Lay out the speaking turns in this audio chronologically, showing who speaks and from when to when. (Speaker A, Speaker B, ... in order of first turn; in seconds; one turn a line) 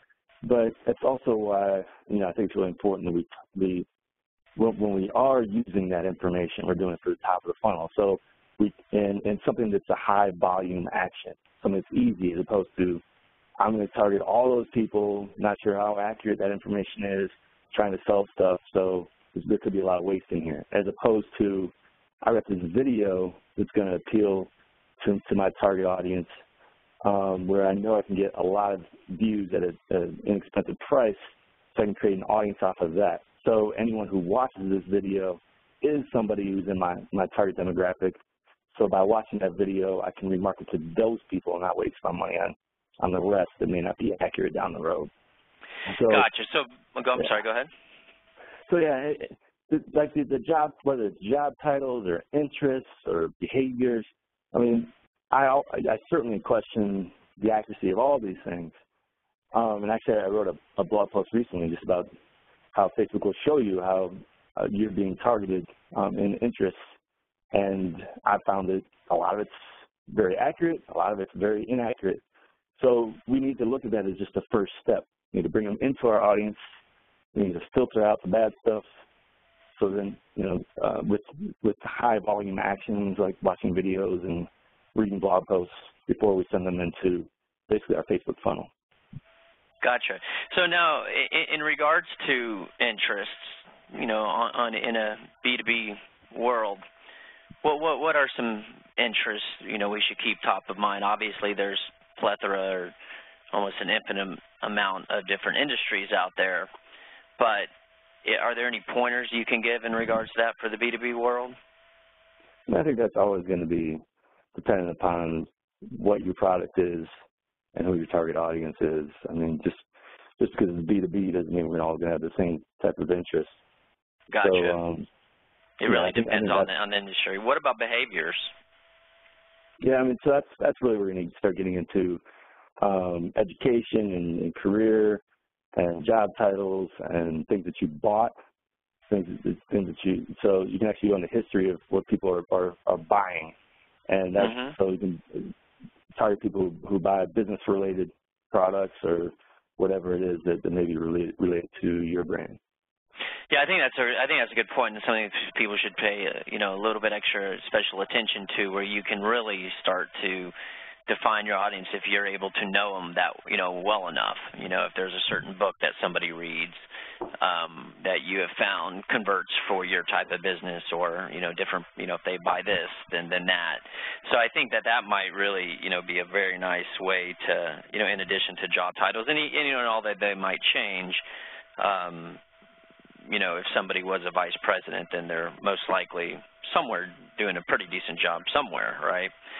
Speaker A: 0.4-3.9
Speaker A: 4.6-13.0
Speaker A: 13.6-24.5
Speaker A: 25.0-26.3
Speaker A: 27.0-31.2
Speaker A: 31.8-38.2
Speaker A: 38.7-45.1
Speaker A: 45.9-46.3
Speaker B: 46.0-47.7
Speaker A: 48.7-58.7
Speaker A: 59.5-62.1
Speaker A: 62.7-66.8
Speaker A: 67.5-72.2
Speaker A: 72.8-76.6
Speaker A: 77.3-78.8
Speaker A: 79.8-88.7
Speaker B: 89.8-96.8
Speaker B: 97.6-102.9
Speaker B: 103.5-106.7
Speaker B: 107.4-107.7
Speaker B: 108.2-111.6
Speaker A: 112.7-114.0
Speaker A: 114.5-117.1
Speaker A: 117.8-119.9
Speaker A: 120.4-123.6
Speaker B: 124.3-124.8
Speaker A: 124.4-125.1
Speaker B: 125.8-128.5
Speaker A: 125.8-126.7
Speaker A: 129.8-132.2
Speaker A: 132.8-135.2
Speaker A: 135.8-138.3
Speaker A: 139.1-143.6
Speaker A: 144.1-145.5
Speaker B: 144.4-144.8
Speaker A: 146.2-152.6
Speaker B: 153.5-160.5
Speaker B: 161.1-166.8
Speaker B: 167.4-181.2
Speaker B: 181.8-182.4
Speaker B: 183.3-189.3